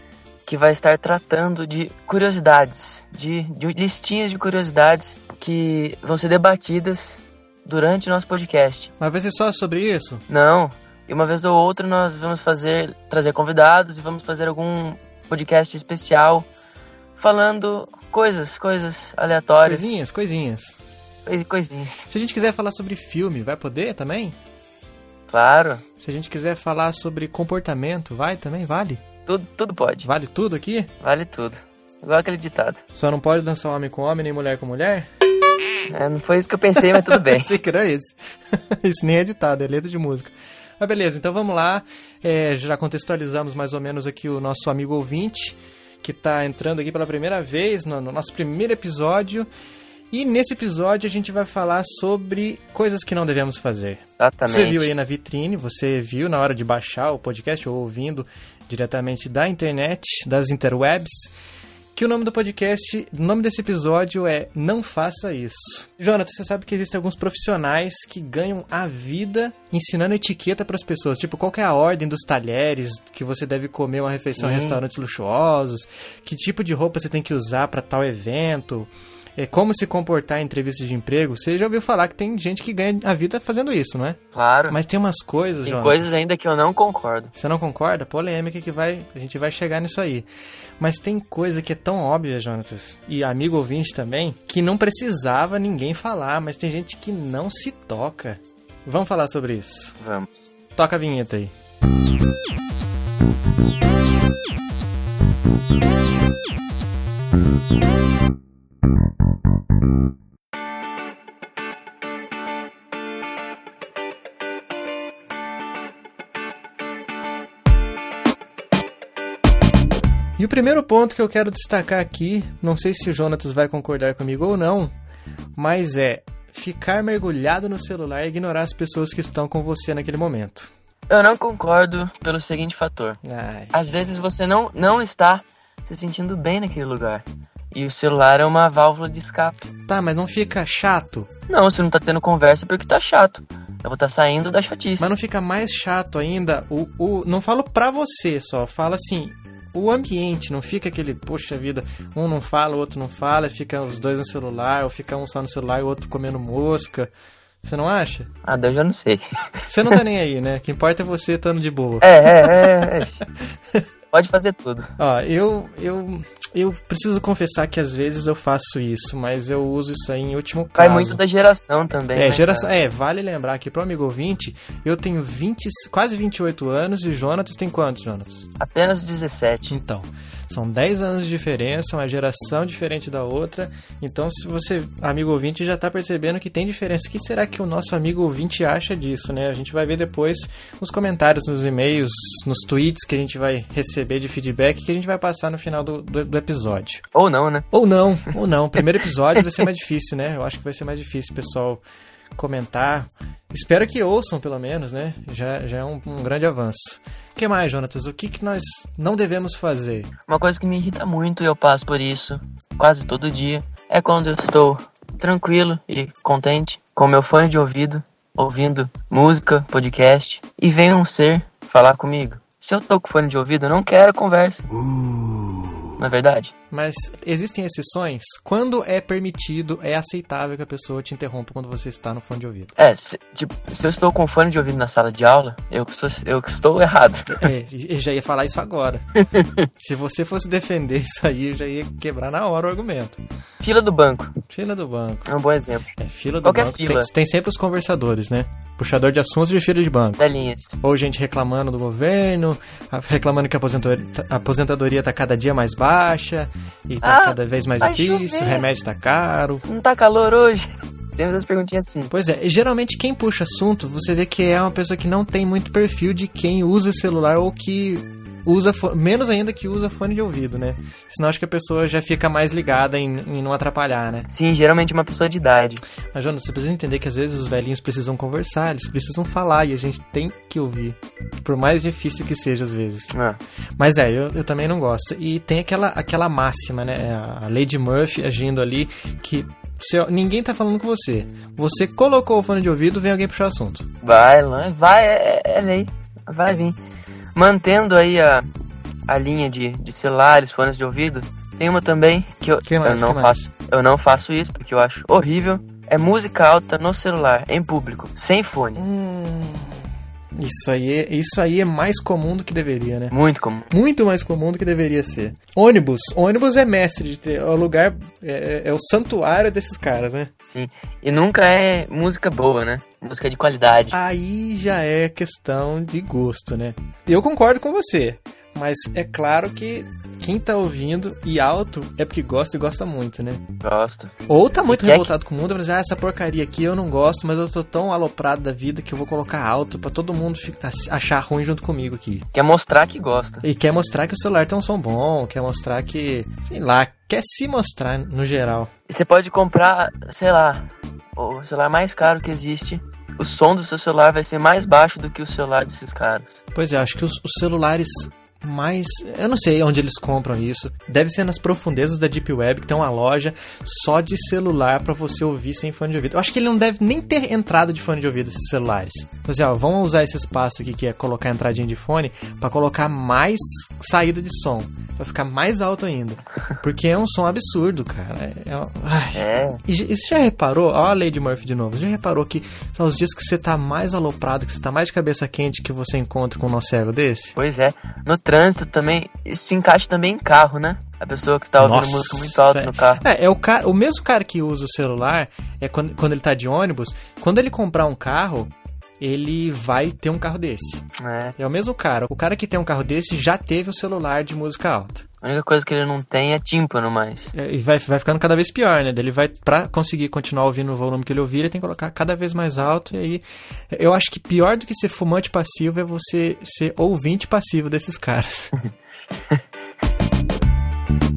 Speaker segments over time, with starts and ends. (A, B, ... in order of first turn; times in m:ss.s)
0:00.4-0:08.9 A
0:09.0-0:10.2 B
0:10.3-0:16.5 A
0:17.2-0:20.0 A
0:19.6-0:20.8 B
0:21.2-0:22.1 A
0:22.1-0:24.4 B
0:25.3-0:25.8 A
0:26.0-0:29.0 B
0:29.2-0:30.1 A
0:30.0-0:30.9 B
0:31.0-0:32.8 A
0:32.9-0:35.1 B
0:35.9-0:37.6 A
0:36.9-0:49.5 B
0:50.1-1:01.3 B
0:54.2-0:54.9 A
1:01.9-1:24.2 B
1:14.3-1:14.8 A
1:24.3-1:24.8 A
1:24.7-1:26.2 B
1:25.6-1:27.3 A
1:27.3-1:30.3 B
1:30.8-1:40.0 B
1:40.0-1:40.5 A
1:40.8-1:41.5 B
2:00.4-2:04.9 B
2:05.6-2:10.7 B
2:11.1-2:13.2 A
2:13.2-2:13.9 B
2:13.7-2:19.7 A
2:19.9-2:21.3 B
2:21.5-2:25.1 A
2:25.0-2:37.1 B
2:37.6-2:38.3 B
2:38.4-2:40.0 A
2:39.7-2:43.0 B
2:42.0-2:43.2 A
2:44.1-2:44.9 A
2:45.0-2:51.2 B
2:50.8-2:52.7 A
2:52.1-2:58.5 B
2:58.6-2:59.8 A
2:59.7-3:17.0 B
3:17.1-3:17.6 A
3:17.7-3:21.8 B
3:22.4-3:30.1 B
3:30.3-3:44.7 A
3:44.9-3:45.6 B
3:46.0-3:46.5 A
3:46.7-3:52.7 B
3:52.8-3:57.5 A
3:57.3-3:59.0 B
3:59.2-3:59.7 A
3:59.8-4:03.2 B
4:03.6-4:04.4 A
4:04.5-4:05.2 B
4:05.2-4:05.9 A
4:06.0-4:10.2 B
4:06.4-4:07.1 A
4:10.2-4:10.8 A
4:10.8-4:19.6 B
4:17.0-4:18.6 A
4:19.6-4:22.1 A
4:22.1-4:34.3 B
4:34.3-4:35.8 A
4:36.1-4:43.1 B
4:43.1-4:43.4 A
4:43.8-4:53.8 B
4:54.0-4:56.8 A
4:57.3-4:58.5 A
4:59.1-5:08.8 A
5:02.6-5:03.5 B
5:08.8-5:09.8 B
5:10.4-5:13.1 B
5:13.1-5:13.7 A
5:13.7-5:20.3 B
5:20.5-5:24.0 A
5:23.9-5:33.4 B
5:33.6-5:34.1 A
5:34.3-5:42.2 B
5:34.7-5:35.1 A
5:42.3-5:43.4 A
5:43.4-5:48.7 B
5:48.9-5:56.4 A
5:56.5-6:27.4 B
6:19.1-6:19.6 A
6:27.4-6:33.0 A
6:31.6-6:40.8 B
6:41.0-6:41.4 A
6:41.4-6:45.0 B
6:45.2-6:47.3 A
6:47.3-6:58.5 B